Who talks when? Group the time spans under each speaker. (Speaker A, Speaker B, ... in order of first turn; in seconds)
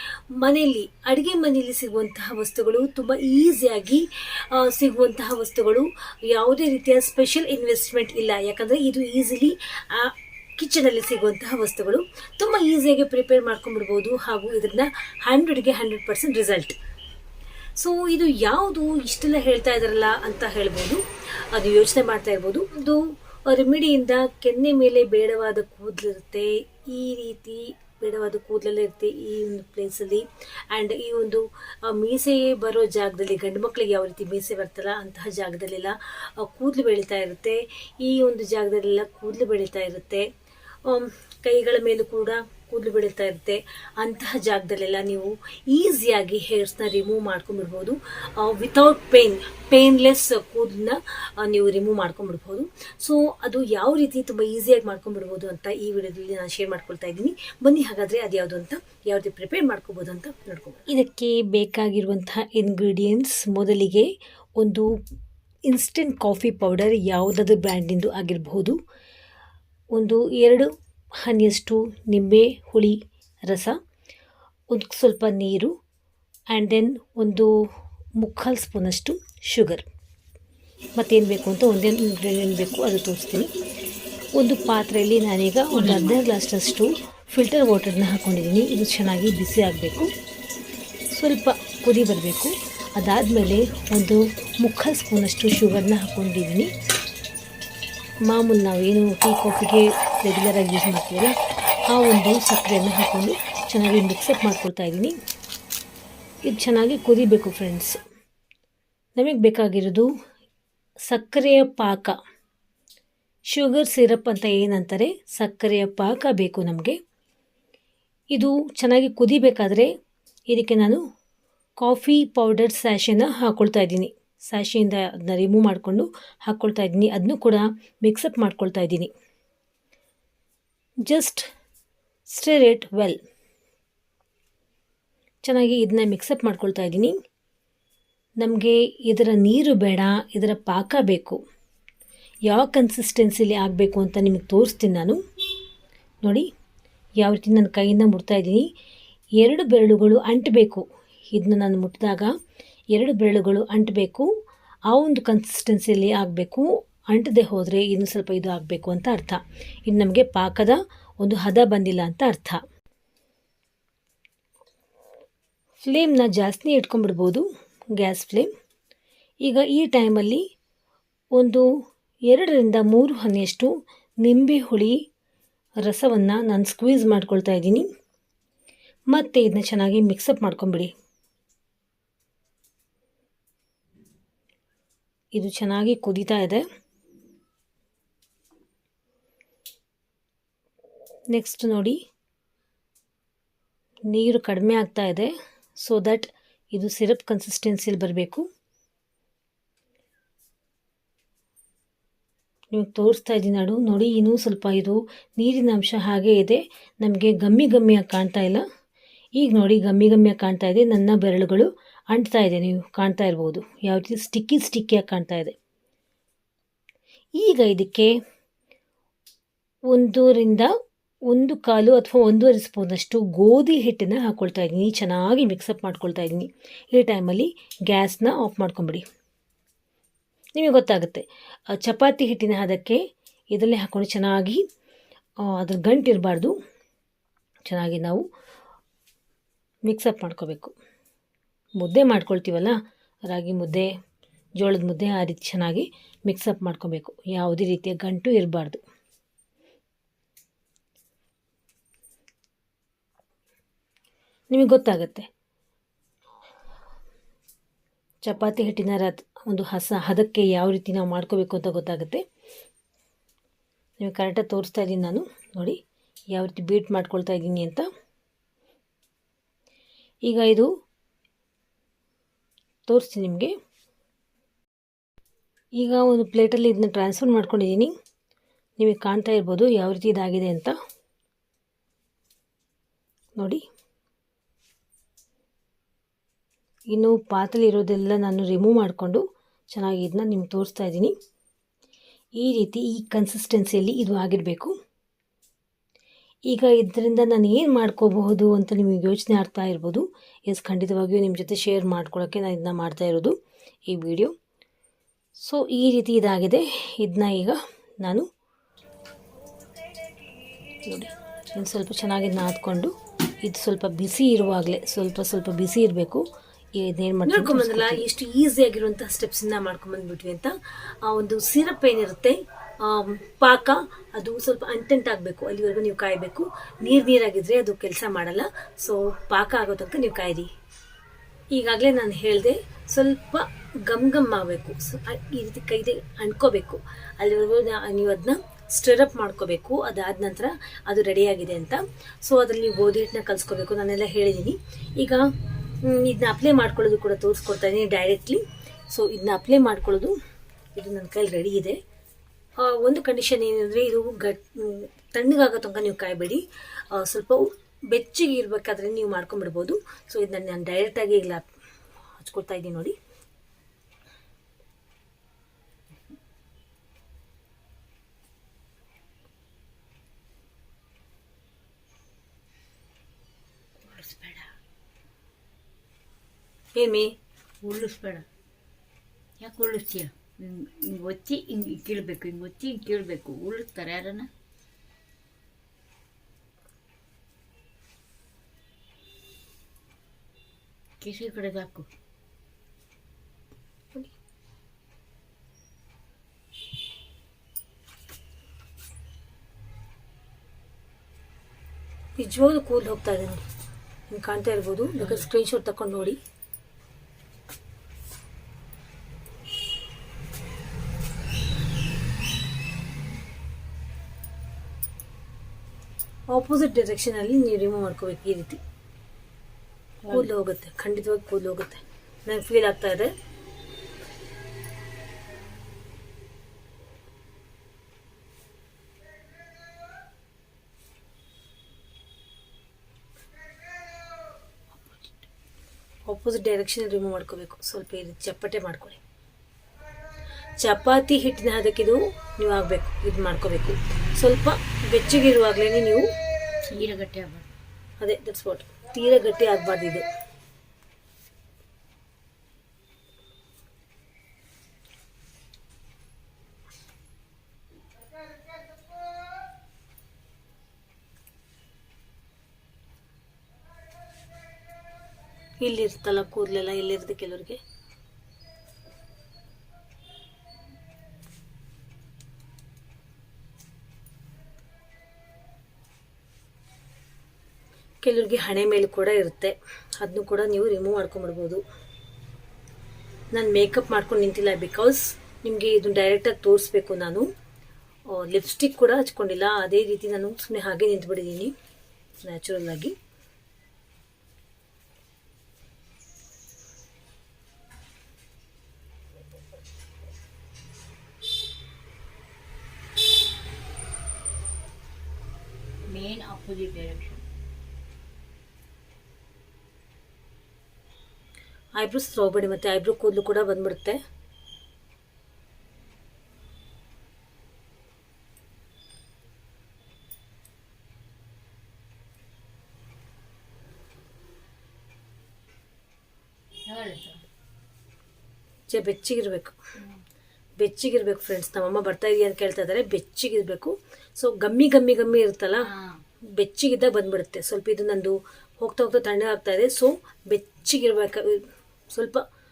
Speaker A: 0.3-16.8, 17.8-40.3, 40.8-64.9, 65.7-68.8, 69.9-70.7, 71.2-73.8, 74.7-75.7, 76.5-77.5, 78.2-79.8, 81.0-83.5, 84.4-90.1, 91.1-96.7, 98.3-101.3, 101.9-105.2, 106.5-108.0, 109.2-110.1, 111.1-112.1, 113.5-117.0, 118.3-119.9, 120.5-121.0, 121.8-129.1, 131.1-131.5, 132.3-133.2, 135.4-137.1, 138.4-141.4, 142.5-145.2, 147.2-148.7, 149.4-152.3, 152.9-154.3, 154.9-162.6, 165.8-168.5, 169.4-170.4, 171.3-171.7, 172.3-175.0, 175.8-177.8, 179.1-180.9, 185.3-186.6, 191.3-192.0, 194.1-198.4, 202.7-208.6, 209.4-215.5, 217.4-218.1, 219.9-220.7, 221.3-229.0, 230.6-233.0, 233.5-234.6, 235.4-236.5, 237.7-238.2, 239.9-240.7, 241.8-242.8, 243.3-243.9, 244.6-248.8, 254.5-255.3, 258.2-262.2, 264.0-265.8, 266.3-267.9, 270.3-270.7, 272.9-273.5, 275.8-277.9, 278.8-280.7, 283.4-283.6, 286.9-291.1, 292.4-294.7, 296.5-303.3, 303.9-304.3, 305.4-308.3, 310.9-316.2, 316.8-330.5, 331.5-345.2, 345.8-350.1, 350.7-351.8, 352.6-361.4, 362.2-362.9, 376.8-377.1, 402.2-403.4, 404.1-406.2, 416.3-418.6, 420.1-423.1, 436.1-439.0, 440.6-446.1, 448.0-450.0, 465.6-467.6, 478.0-481.6, 483.3-487.3, 488.1-491.5, 492.2-492.9, 511.8-514.0, 528.7-529.5, 530.6-535.7, 536.4-542.2
Speaker B: 85.7-86.1, 317.3-318.0, 373.8-374.5, 377.6-378.3, 379.4-384.3, 391.0-391.9, 405.0-405.2, 420.0-420.3, 446.7-447.5, 505.9-507.2, 526.7-527.2, 535.6-536.0